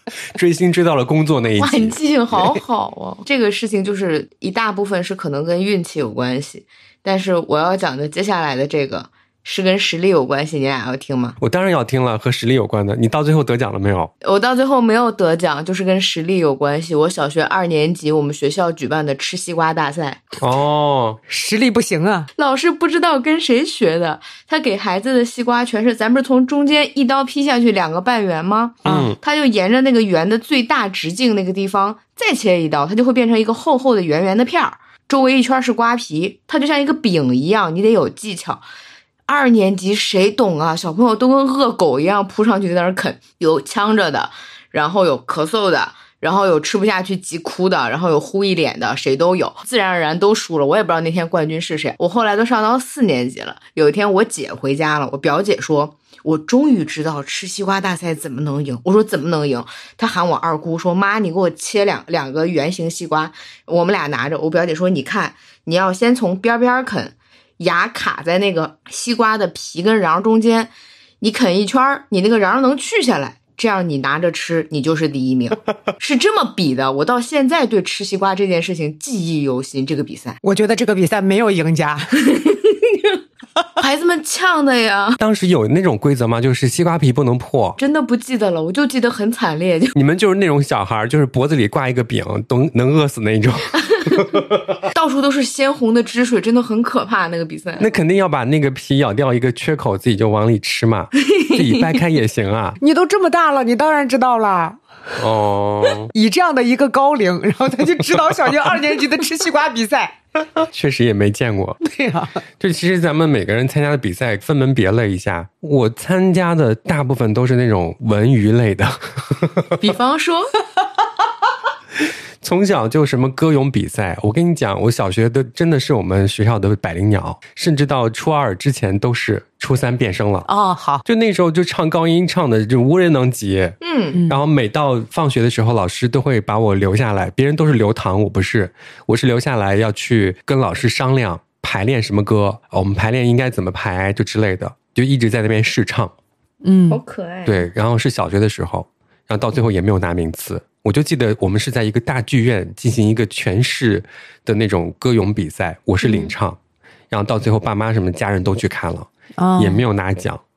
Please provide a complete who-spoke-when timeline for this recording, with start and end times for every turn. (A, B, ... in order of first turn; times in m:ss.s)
0:00.3-0:02.4 A
0:01.6-0:11.4 B
0:11.4-0:14.1 A
0:14.2-0:20.2 B
0:20.4-0:21.2 A
0:21.3-0:22.3 C
0:22.4-0:38.6 B
0:28.8-0:29.1 C
0:28.8-0:29.2 A
0:39.3-1:20.4 B
1:20.4-1:22.2 C
1:22.2-1:23.1 B
1:23.8-1:25.2 B
1:25.2-1:27.8 A
1:27.8-1:29.9 B
1:29.9-1:34.6 A
1:34.9-1:37.9 B
1:37.8-1:42.8 A
1:41.3-1:41.7 B
1:42.8-1:44.8 C
1:45.2-1:46.1 A
1:46.1-1:50.1 C
1:50.6-1:51.8 A
1:51.8-1:52.4 C
1:52.6-1:59.7 A
1:59.8-2:00.5 B
2:02.4-2:10.5 A
2:10.5-2:11.0 C
2:11.0-2:26.1 A
2:13.8-2:14.2 B
2:14.1-2:14.4 C
2:26.6-2:27.0 C
2:26.9-2:27.7 B
2:27.4-2:36.6 A
2:36.0-2:36.3 B
2:37.1-2:40.4 A
2:39.4-2:39.8 C